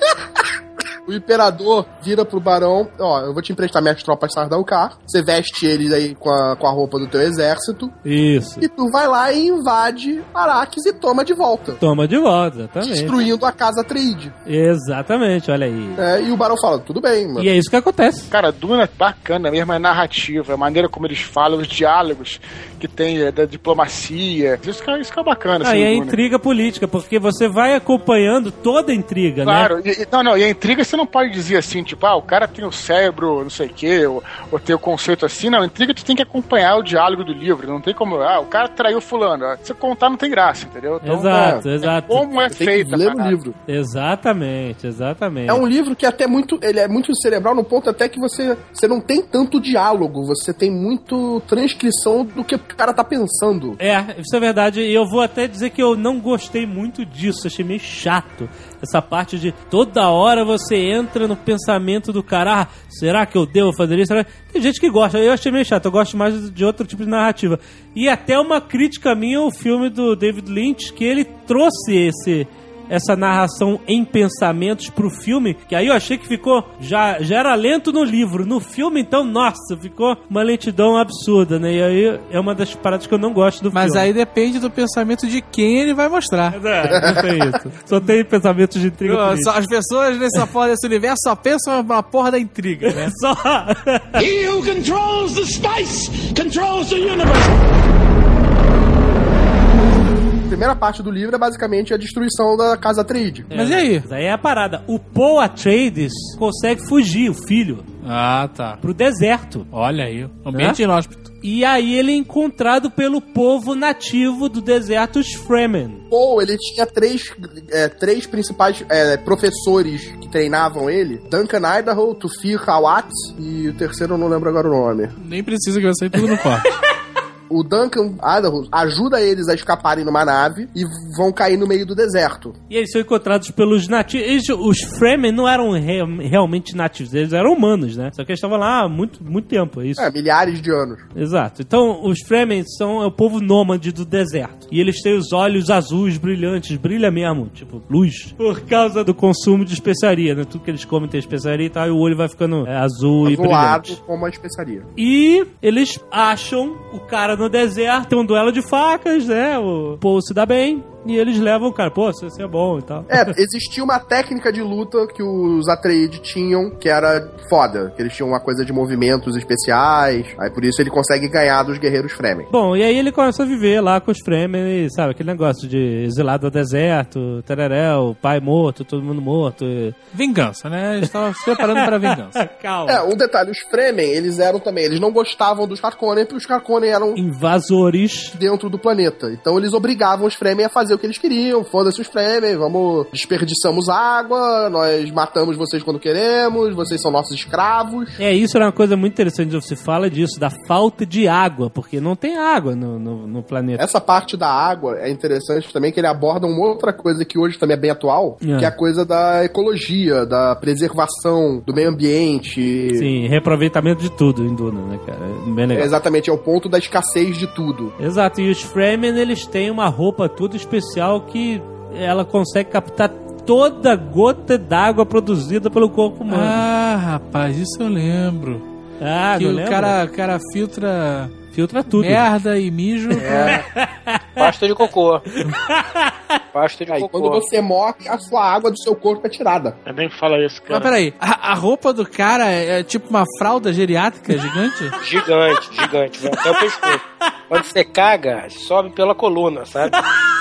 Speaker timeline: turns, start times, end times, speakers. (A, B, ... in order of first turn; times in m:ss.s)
0:01.0-0:08.0 A
0:08.0-0:08.7 B
0:08.6-0:11.8 A
0:11.8-0:13.2 B
0:12.8-0:14.3 A
0:14.4-0:16.0 B
0:16.0-0:17.5 A
0:17.4-0:18.3 B
0:18.3-0:26.2 C
0:25.6-0:29.7 B
0:29.4-0:43.4 C
0:41.0-0:42.3 B
0:41.3-0:41.6 A
0:42.5-0:43.5 A
0:43.7-0:45.6 B
0:45.5-0:53.8 A
0:53.8-1:24.1 B
1:23.7-1:26.6 D
1:26.5-1:29.5 B
1:26.9-1:27.3 A
1:29.0-1:33.2 D
1:32.9-1:34.2 B
1:34.2-1:37.5 E
1:40.5-1:43.5 A
1:43.5-1:47.8 B
1:43.5-1:44.0 D
1:48.0-1:48.8 D
1:48.8-1:49.6 B
1:49.7-1:51.3 D
1:50.5-1:50.8 B
1:51.4-1:56.0 B
1:56.1-2:05.1 A
2:05.2-2:06.7 D
2:07.5-2:12.6 A
2:12.7-2:20.1 B
2:20.0-2:21.0 A
2:21.1-2:34.0 B
2:33.2-2:34.9 A
2:35.0-2:43.3 B
2:43.1-2:52.5 A
2:52.5-3:00.0 B
3:00.1-3:02.4 D
3:01.5-3:03.0 B
3:02.9-3:07.2 A
3:07.2-3:08.3 B
3:08.3-3:18.2 A
3:18.2-3:23.8 B
3:23.8-3:33.1 A
3:28.4-3:28.7 B
3:32.9-3:35.9 B
3:35.7-3:37.9 A
3:38.0-3:46.6 B
3:46.3-3:48.6 D
3:49.0-3:50.0 B
3:49.3-3:51.4 D
3:51.5-3:52.3 B
3:51.9-3:53.6 D
3:53.2-3:53.6 F
3:53.4-3:54.6 B
3:54.4-3:55.2 F
3:55.6-3:56.2 B
3:56.5-3:57.4 F
3:56.9-3:59.8 A
3:59.8-4:00.9 C
4:00.7-4:05.0 D
4:05.0-4:09.9 F